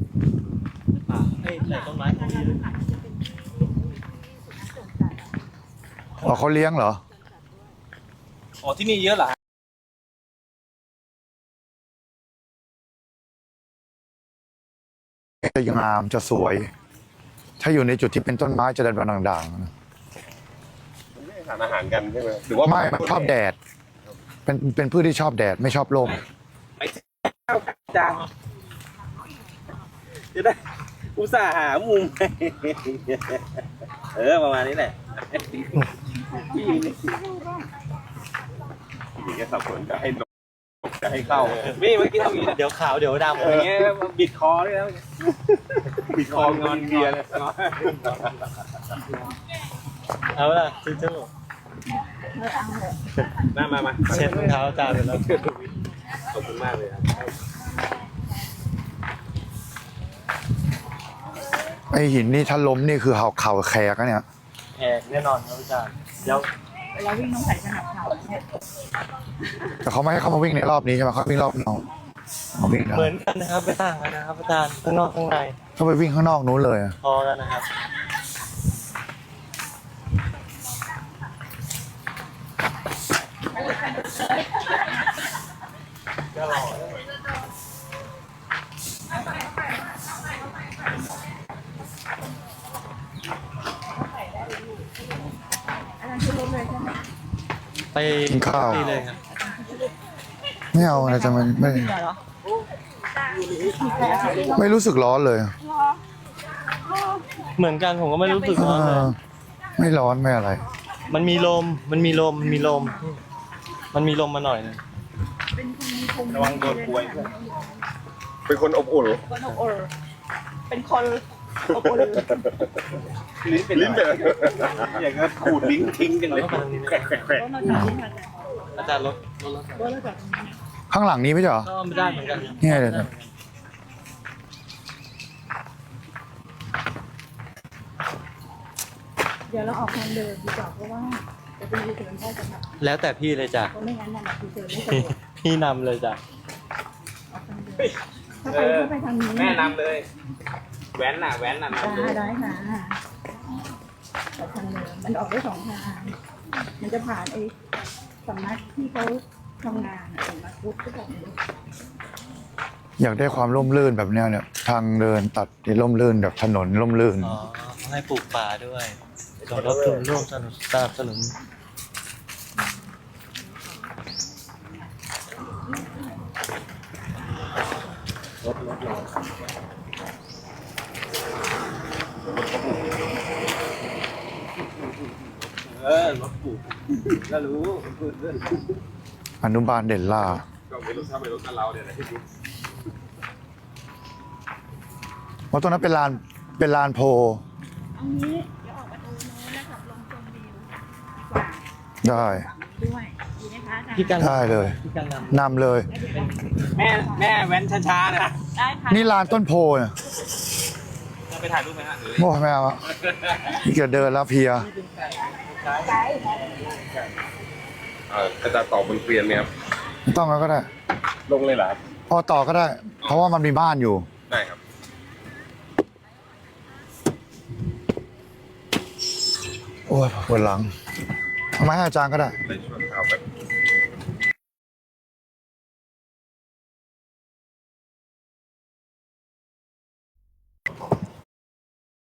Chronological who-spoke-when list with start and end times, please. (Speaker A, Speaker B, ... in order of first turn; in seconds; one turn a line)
Speaker A: 1.0-2.6
Speaker B: 1.6-5.3
Speaker C: 6.2-7.0
Speaker D: 8.6-9.3
Speaker C: 15.4-16.7
Speaker C: 17.6-19.7
Speaker E: 21.1-23.3
Speaker C: 22.6-23.6
Speaker C: 24.4-26.2
Speaker D: 26.8-28.3
Speaker D: 30.3-30.6
Speaker D: 31.1-33.6
Speaker D: 34.1-35.8
Speaker B: 36.3-37.6
Speaker D: 36.5-36.9
Speaker E: 39.2-40.2
Speaker D: 41.0-42.6
Speaker A: 41.3-41.8
Speaker A: 42.4-43.8
Speaker D: 43.3-45.0
Speaker E: 46.1-48.1
Speaker D: 46.1-48.1
Speaker A: 50.3-51.3
Speaker B: 52.2-53.0
Speaker D: 53.5-55.7
Speaker A: 54.0-55.4
Speaker D: 56.2-57.4
Speaker C: 61.9-64.2
Speaker A: 64.8-66.5
Speaker B: 66.9-68.4
Speaker C: 69.8-71.8
Speaker C: 72.5-73.2
Speaker A: 72.9-75.6
Speaker C: 75.8-77.0
Speaker A: 77.0-77.7
Speaker B: 95.9-97.0
Speaker A: 97.9-99.2
Speaker C: 98.3-98.9
Speaker C: 100.7-101.9
Speaker B: 100.7-102.2
Speaker D: 103.3-104.7
Speaker B: 103.5-104.7
Speaker C: 104.5-105.5
Speaker A: 107.5-109.1
Speaker B: 108.2-108.5
Speaker C: 108.5-109.2
Speaker C: 109.8-110.6
Speaker A: 111.1-113.2
Speaker B: 112.4-113.0
Speaker A: 113.9-114.8
Speaker B: 115.5-117.8
Speaker D: 116.3-117.3
Speaker E: 118.5-119.3
Speaker B: 119.3-119.9
Speaker B: 120.7-122.5
Speaker E: 121.7-122.4
Speaker D: 123.4-127.6
Speaker E: 123.7-125.5
Speaker A: 126.2-127.5
Speaker B: 127.4-128.9
Speaker C: 127.6-128.0
Speaker A: 128.7-130.0
Speaker B: 129.8-130.6
Speaker C: 130.9-131.7
Speaker A: 131.6-133.3
Speaker B: 131.9-132.7
Speaker C: 132.6-133.1
Speaker B: 139.5-142.7
Speaker A: 142.8-143.7
Speaker B: 143.7-145.1
Speaker A: 144.8-146.2
Speaker B: 147.3-147.9
Speaker B: 148.4-149.7
Speaker D: 148.5-150.1
Speaker D: 150.9-152.3
Speaker B: 151.8-153.0
Speaker B: 154.4-156.1
Speaker B: 156.8-157.5
Speaker B: 158.2-161.3
Speaker C: 163.0-167.4
Speaker A: 167.2-171.3
Speaker E: 169.4-170.1
Speaker A: 178.4-179.0
Speaker E: 182.3-182.7
Speaker D: 185.6-188.5
Speaker C: 189.4-190.4
Speaker E: 190.7-192.2
Speaker C: 195.5-197.4
Speaker B: 197.9-204.3
Speaker C: 202.0-202.5
Speaker A: 203.9-205.4
Speaker C: 204.2-204.8
Speaker C: 205.3-205.9
Speaker B: 205.9-207.3
Speaker D: 206.7-208.4
Speaker B: 208.5-209.1
Speaker C: 208.9-209.9
Speaker D: 211.3-212.3
Speaker C: 212.2-212.9
Speaker D: 213.1-213.4
Speaker C: 213.5-214.7
Speaker A: 214.6-216.0
Speaker E: 218.1-219.5
Speaker C: 220.1-220.7
Speaker E: 221.3-221.8
Speaker C: 222.1-224.1
Speaker E: 223.0-223.3
Speaker E: 224.3-224.6
Speaker C: 229.9-230.7
Speaker C: 231.6-232.3
Speaker E: 232.4-233.2